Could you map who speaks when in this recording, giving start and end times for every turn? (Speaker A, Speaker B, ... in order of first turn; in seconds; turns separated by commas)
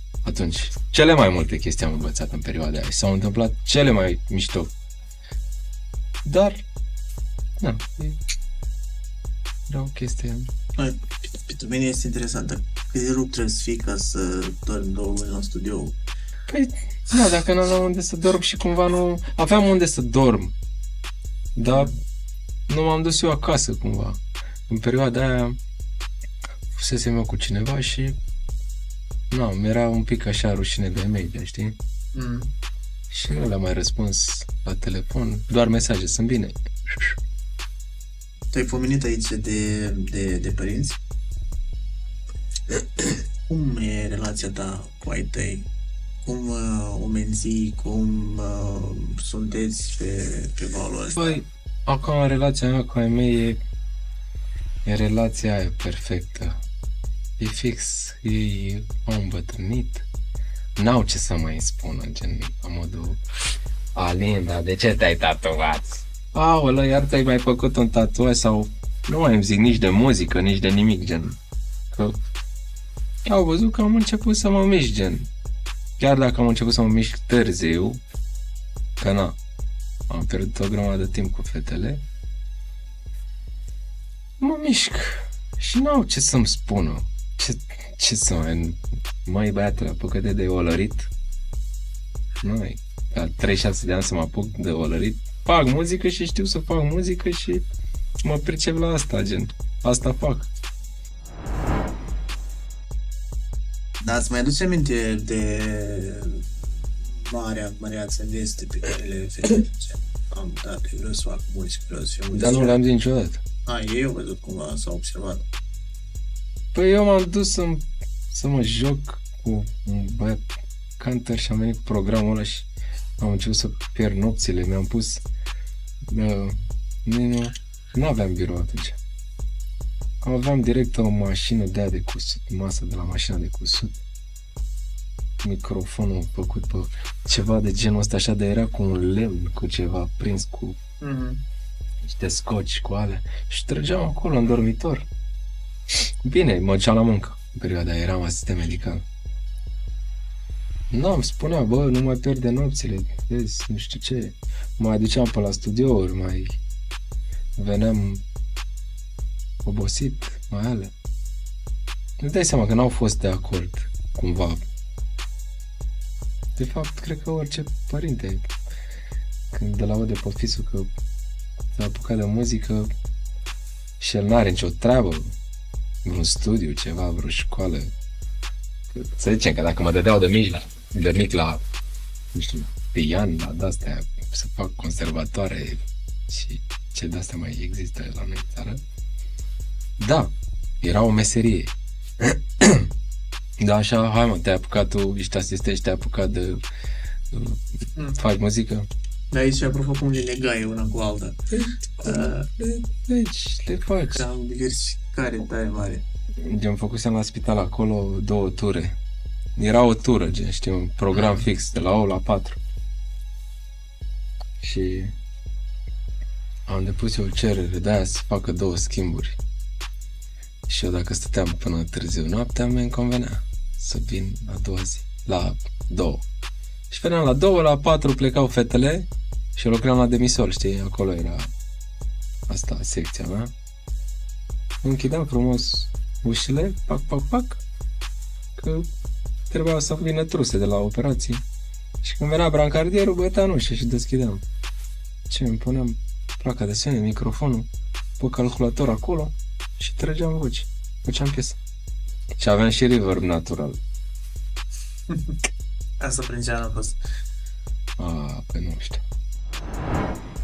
Speaker A: 0.2-4.7, Speaker A: 6.2-6.6, Speaker A: 7.6-8.2, Speaker A: 9.7-10.5, Speaker B: 10.8-16.0, Speaker A: 16.5-20.6, Speaker A: 21.6-22.0, Speaker A: 22.7-25.6, Speaker A: 26.7-28.2, Speaker A: 29.3-31.8, Speaker B: 32.1-32.5, Speaker A: 33.1-37.1, Speaker B: 38.5-41.0, Speaker B: 43.5-45.7, Speaker B: 46.2-51.4, Speaker A: 51.2-53.6, Speaker A: 54.9-56.6, Speaker A: 57.4-60.0, Speaker A: 60.8-63.2, Speaker A: 64.0-71.4, Speaker A: 71.9-72.2, Speaker A: 73.3-75.3, Speaker A: 76.0-78.0, Speaker A: 79.0-79.4, Speaker A: 80.1-82.0, Speaker A: 84.4-91.1, Speaker A: 92.4-97.6, Speaker A: 98.2-100.5, Speaker B: 104.0-106.5, Speaker B: 107.1-112.8, Speaker A: 112.3-113.4, Speaker B: 113.7-115.5, Speaker A: 116.7-122.7, Speaker A: 123.2-125.2, Speaker A: 126.1-129.0, Speaker A: 130.2-134.0, Speaker A: 135.4-140.8, Speaker B: 141.0-141.4, Speaker A: 142.0-145.1, Speaker A: 146.2-149.1, Speaker A: 150.9-156.6, Speaker A: 157.6-158.2, Speaker A: 159.6-160.9, Speaker A: 162.2-164.6, Speaker A: 166.6-168.5, Speaker A: 169.5-170.9, Speaker A: 171.7-172.9, Speaker A: 174.0-175.3, Speaker A: 176.0-177.9, Speaker A: 178.9-181.6, Speaker A: 182.3-188.8, Speaker A: 190.0-192.9, Speaker A: 193.6-196.6, Speaker A: 197.3-198.9, Speaker B: 199.3-201.4, Speaker A: 201.6-204.2, Speaker B: 202.0-202.5, Speaker B: 204.1-206.0, Speaker A: 206.4-209.0, Speaker A: 209.6-212.6, Speaker A: 214.6-215.2, Speaker A: 216.7-219.4, Speaker A: 220.7-226.2, Speaker A: 226.9-231.5, Speaker A: 232.5-233.5, Speaker A: 234.8-237.6, Speaker A: 238.6-238.9, Speaker A: 239.5-241.4, Speaker A: 242.0-244.4, Speaker A: 245.3-247.7, Speaker A: 248.2-251.6, Speaker A: 252.4-253.8, Speaker B: 256.0-257.0, Speaker A: 258.0-259.0